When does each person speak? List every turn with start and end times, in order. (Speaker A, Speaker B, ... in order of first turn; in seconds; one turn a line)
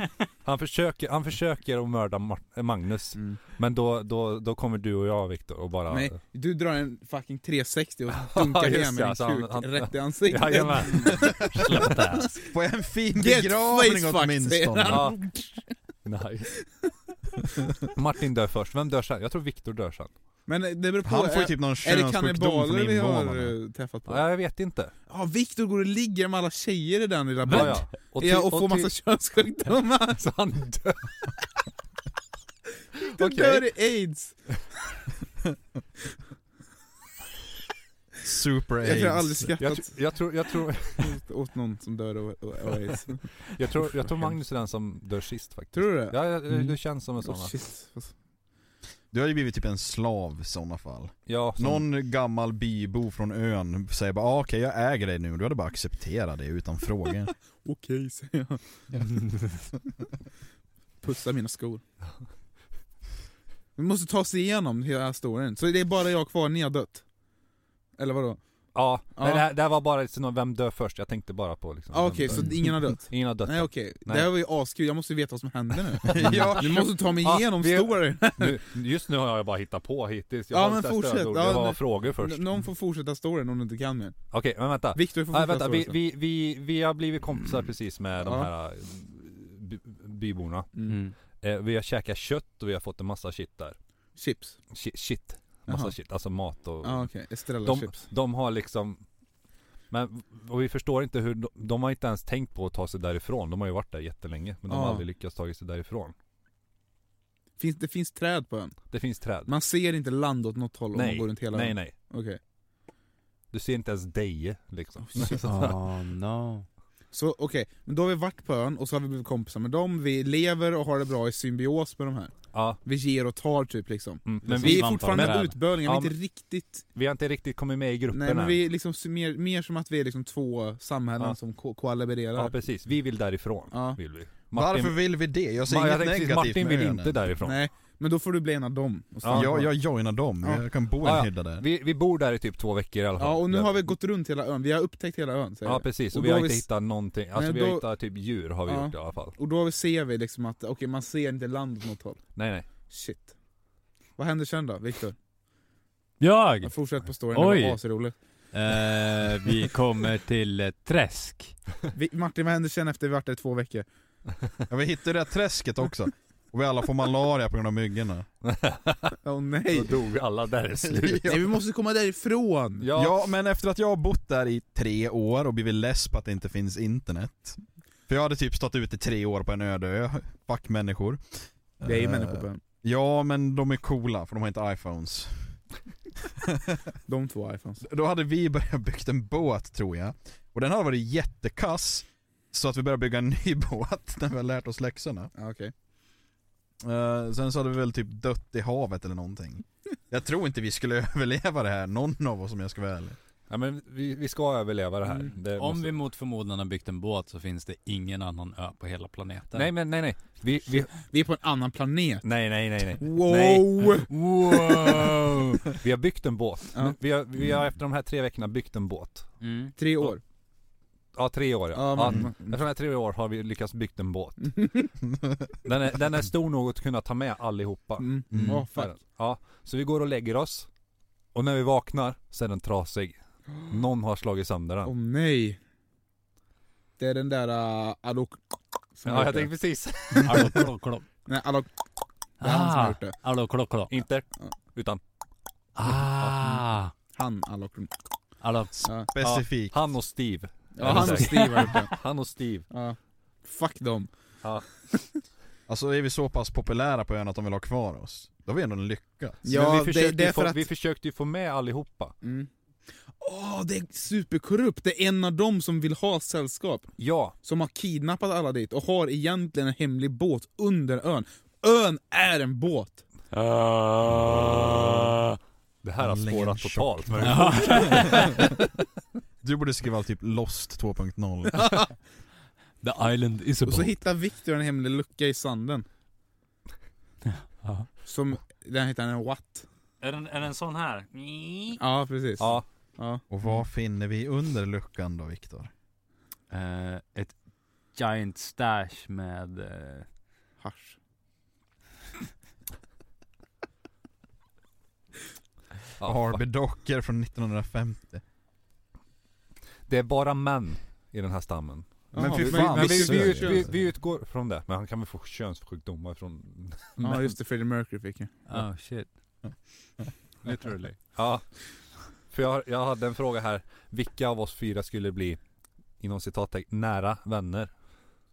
Speaker A: 0.4-6.2
Speaker B: 5.9-11.9
Speaker A: 8.1-12.3
Speaker C: 12.4-15.1
Speaker B: 13.1-15.6
Speaker A: 14.9-15.2
Speaker A: 16.0-16.6
Speaker A: 17.9-20.1
Speaker B: 20.5-24.2
Speaker C: 21.0-23.5
Speaker A: 24.1-24.9
Speaker B: 25.1-30.2
Speaker A: 27.4-28.9
Speaker D: 27.5-27.7
Speaker A: 30.1-31.1
Speaker A: 33.0-33.6
Speaker B: 33.1-34.3
Speaker C: 38.2-39.5
Speaker B: 38.8-39.9
Speaker A: 39.6-41.2
Speaker B: 41.0-43.4
Speaker A: 43.4-47.5
Speaker B: 45.7-46.1
Speaker B: 47.2-48.1
Speaker C: 49.1-57.3
Speaker A: 51.3-51.9
Speaker B: 57.6-59.1
Speaker B: 61.0-61.8
Speaker B: 63.8-67.0
Speaker B: 68.0-68.4
Speaker A: 68.7-74.3
Speaker B: 69.2-69.5
Speaker B: 71.9-78.6
Speaker D: 72.3-72.5
Speaker C: 76.0-77.0
Speaker A: 76.1-82.5
Speaker B: 80.5-84.2
Speaker A: 84.3-90.7
Speaker B: 84.9-86.0
Speaker B: 88.2-88.5
Speaker D: 90.9-91.1
Speaker A: 91.4-93.8
Speaker B: 94.2-94.6
Speaker A: 94.7-97.1
Speaker B: 95.7-95.9
Speaker B: 96.8-98.0
Speaker A: 97.6-99.0
Speaker A: 99.9-106.1
Speaker B: 104.7-105.0
Speaker B: 107.6-108.8
Speaker A: 108.9-109.5
Speaker B: 109.5-112.4
Speaker A: 110.9-111.9
Speaker A: 113.5-115.8
Speaker B: 115.1-115.5
Speaker D: 115.4-116.7
Speaker B: 117.1-126.8
Speaker A: 122.5-122.8
Speaker A: 124.2-126.1
Speaker D: 124.4-125.6
Speaker A: 126.9-128.6
Speaker B: 128.1-132.5
Speaker A: 132.3-135.0
Speaker B: 133.7-134.0
Speaker C: 134.5-137.2
Speaker A: 135.6-137.6
Speaker B: 137.4-139.7
Speaker A: 139.2-139.5
Speaker C: 139.3-141.6
Speaker A: 141.0-143.9
Speaker B: 143.2-146.7
Speaker A: 145.6-149.3
Speaker B: 147.3-147.8
Speaker B: 148.7-152.2
Speaker A: 152.3-152.7
Speaker B: 152.9-153.3
Speaker B: 154.2-155.2
Speaker D: 156.2-157.8
Speaker B: 156.6-158.1
Speaker D: 158.5-161.6
Speaker B: 161.9-163.8
Speaker C: 164.7-168.3
Speaker A: 168.4-169.2
Speaker B: 169.2-170.0
Speaker A: 169.7-171.4
Speaker C: 170.9-171.5
Speaker B: 171.2-172.9
Speaker A: 172.8-173.2
Speaker C: 172.9-185.6
Speaker B: 181.8-182.6
Speaker C: 186.4-186.8
Speaker B: 187.1-187.8
Speaker C: 187.8-195.3
Speaker B: 195.3-195.7
Speaker C: 196.8-203.2
Speaker A: 203.5-206.0
Speaker D: 205.5-209.7
Speaker A: 209.5-210.9
Speaker B: 210.9-212.2
Speaker A: 212.2-213.9
Speaker B: 213.0-215.8
Speaker D: 214.1-215.6
Speaker A: 215.8-219.3
Speaker D: 219.4-219.7
Speaker B: 219.8-220.2
Speaker A: 221.1-224.5
Speaker B: 221.7-222.6
Speaker B: 224.4-224.9
Speaker A: 225.6-230.7
Speaker B: 228.0-228.9
Speaker C: 228.3-228.6
Speaker A: 231.3-233.2
Speaker A: 233.7-234.9
Speaker B: 234.8-235.6
Speaker B: 237.0-238.4
Speaker B: 238.9-239.5
Speaker A: 239.0-240.7
Speaker D: 240.2-241.0
Speaker B: 241.3-241.7
Speaker D: 242.4-243.9
Speaker B: 242.4-243.1
Speaker A: 243.9-245.0
Speaker D: 245.8-246.9
Speaker A: 245.8-246.6
Speaker B: 247.1-247.9
Speaker D: 248.4-249.4
Speaker C: 248.8-249.8
Speaker A: 249.3-252.7
Speaker B: 250.7-252.0
Speaker D: 250.9-251.8
Speaker B: 252.7-254.1
Speaker C: 255.7-259.4
Speaker B: 259.4-260.6
Speaker A: 259.4-262.1
Speaker B: 262.2-262.5
Speaker B: 263.2-273.0
Speaker A: 267.0-267.3
Speaker D: 273.3-275.3
Speaker A: 274.0-275.2
Speaker A: 275.8-278.6
Speaker C: 276.0-278.6
Speaker D: 277.2-278.5
Speaker C: 279.4-281.7
Speaker B: 281.6-281.9
Speaker D: 282.8-284.0
Speaker B: 283.6-285.9
Speaker D: 287.3-287.9
Speaker B: 288.1-289.6
Speaker D: 290.0-291.8
Speaker B: 291.8-293.2
Speaker A: 292.4-292.6
Speaker C: 293.3-295.7
Speaker D: 296.5-297.4
Speaker D: 297.9-300.1
Speaker B: 300.6-300.9
Speaker A: 306.0-306.4
Speaker C: 306.0-308.2
Speaker A: 309.9-317.3
Speaker B: 312.1-313.6
Speaker C: 312.1-313.7
Speaker B: 317.0-318.3
Speaker D: 318.5-319.1
Speaker D: 320.4-321.0
Speaker A: 321.1-321.5
Speaker A: 322.3-325.4
Speaker A: 326.0-327.7